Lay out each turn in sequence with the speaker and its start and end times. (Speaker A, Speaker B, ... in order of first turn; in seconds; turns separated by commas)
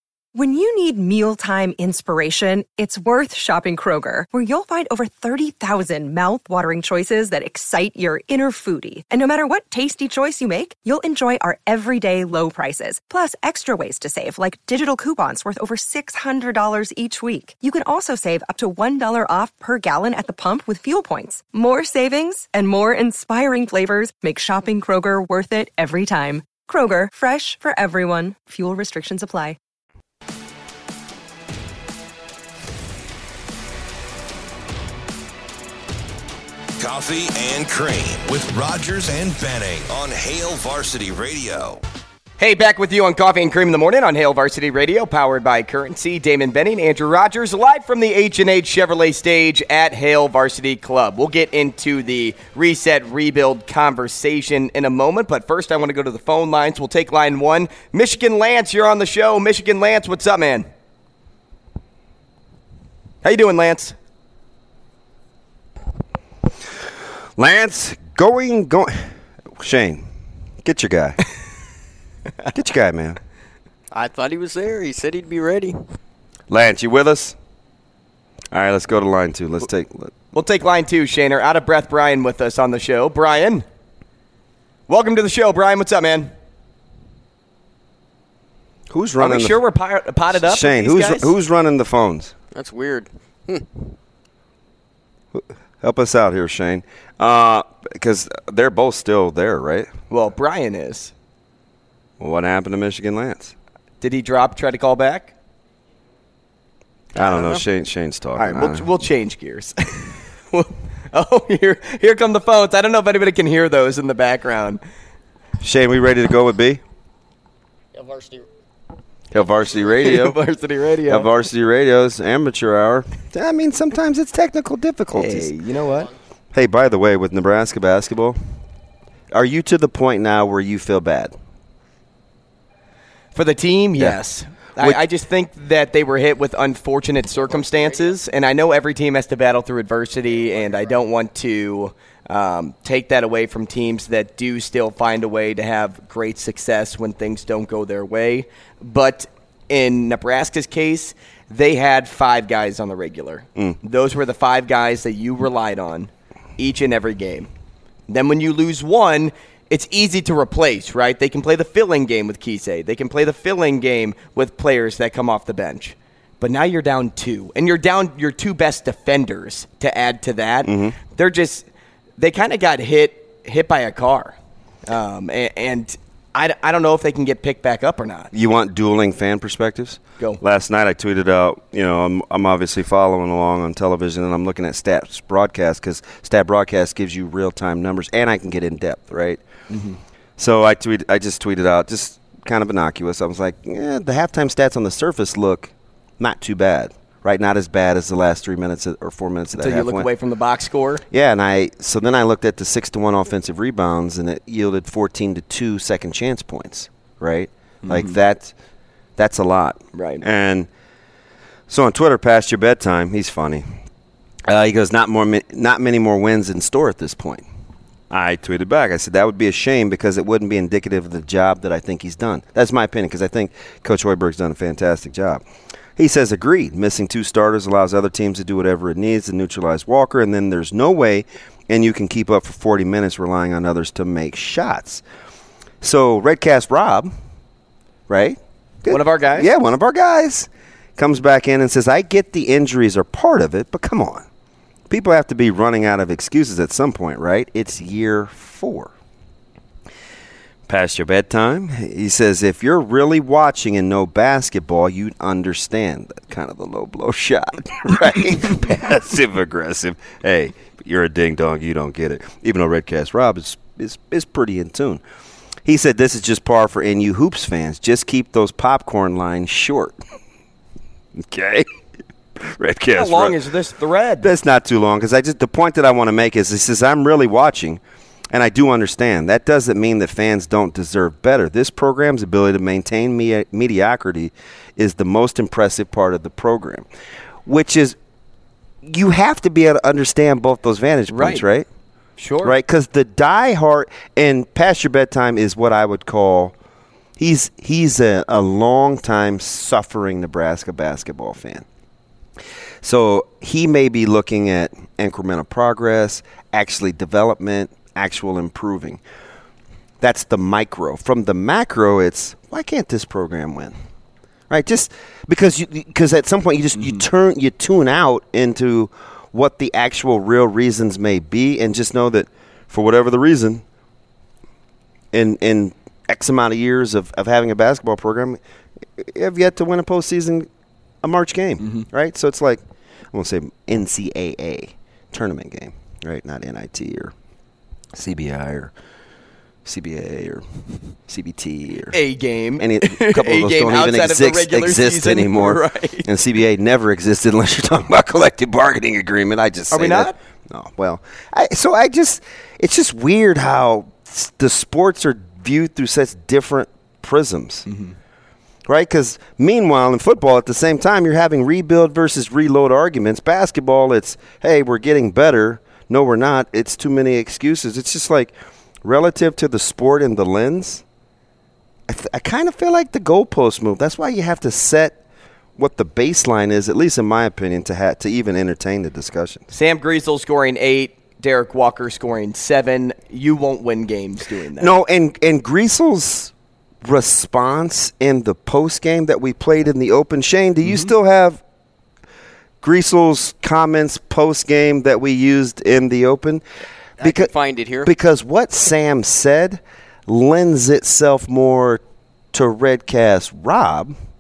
Speaker A: 0.3-29.6, Speaker B: 36.8-41.8, Speaker C: 42.4-60.7, Speaker C: 63.2-64.0, Speaker D: 67.4-70.1, Speaker D: 70.6-71.2, Speaker D: 72.5-73.2, Speaker E: 73.9-75.8, Speaker D: 76.5-77.4, Speaker D: 78.5-80.1, Speaker C: 80.3-83.7, Speaker C: 84.9-86.3, Speaker D: 88.9-89.6, Speaker C: 89.2-91.3, Speaker D: 90.3-92.3, Speaker E: 92.5-93.8, Speaker D: 95.3-99.9, Speaker C: 100.1-101.1, Speaker D: 102.2-103.5, Speaker C: 104.0-105.3, Speaker D: 107.1-108.9, Speaker E: 107.2-107.6, Speaker C: 108.4-114.8, Speaker D: 115.6-116.8, Speaker E: 117.9-118.5, Speaker D: 119.3-120.4, Speaker C: 120.0-121.3, Speaker D: 121.1-125.5, Speaker C: 125.1-126.1, Speaker D: 126.5-128.4, Speaker D: 129.3-131.4, Speaker C: 133.3-157.5, Speaker E: 137.7-138.1, Speaker C: 158.1-171.7, Speaker D: 170.6-171.0, Speaker C: 172.2-174.4, Speaker C: 174.9-178.3, Speaker D: 178.3-189.4, Speaker C: 189.7-190.0, Speaker D: 190.4-200.1, Speaker C: 199.5-201.0, Speaker D: 201.1-208.5, Speaker C: 207.8-208.2, Speaker D: 209.2-210.7, Speaker C: 209.9-210.2, Speaker D: 211.7-213.8, Speaker D: 214.4-217.5, Speaker D: 218.1-225.4, Speaker D: 226.0-235.0, Speaker D: 235.8-237.2, Speaker D: 238.1-244.3, Speaker C: 238.9-239.5, Speaker D: 244.9-248.9, Speaker D: 250.7-265.0, Speaker D: 265.6-270.0, Speaker D: 271.1-271.7, Speaker D: 272.4-273.4, Speaker C: 272.9-274.3, Speaker D: 274.2-286.9, Speaker D: 287.5-288.0, Speaker D: 288.8-291.7, Speaker C: 291.1-291.4, Speaker C: 292.2-292.6, Speaker D: 292.4-296.5, Speaker D: 297.2-301.7, Speaker D: 302.8-309.0, Speaker D: 310.0-313.8, Speaker D: 314.5-323.6, Speaker C: 316.8-317.0, Speaker D: 325.1-328.4, Speaker D: 329.0-330.5, Speaker D: 331.0-337.1, Speaker C: 331.6-331.9, Speaker D: 337.9-338.7, Speaker D: 339.6-342.0, Speaker C: 341.9-346.1, Speaker D: 342.6-357.7, Speaker C: 349.7-350.2, Speaker C: 357.7-358.0, Speaker D: 358.7-370.8, Speaker D: 371.9-375.0, Speaker D: 375.6-379.5, Speaker C: 379.5-384.7, Speaker D: 384.6-386.3, Speaker D: 386.8-391.4, Speaker C: 390.6-390.9, Speaker D: 392.6-396.4, Speaker E: 397.0-397.9, Speaker D: 397.0-401.8, Speaker D: 402.3-404.0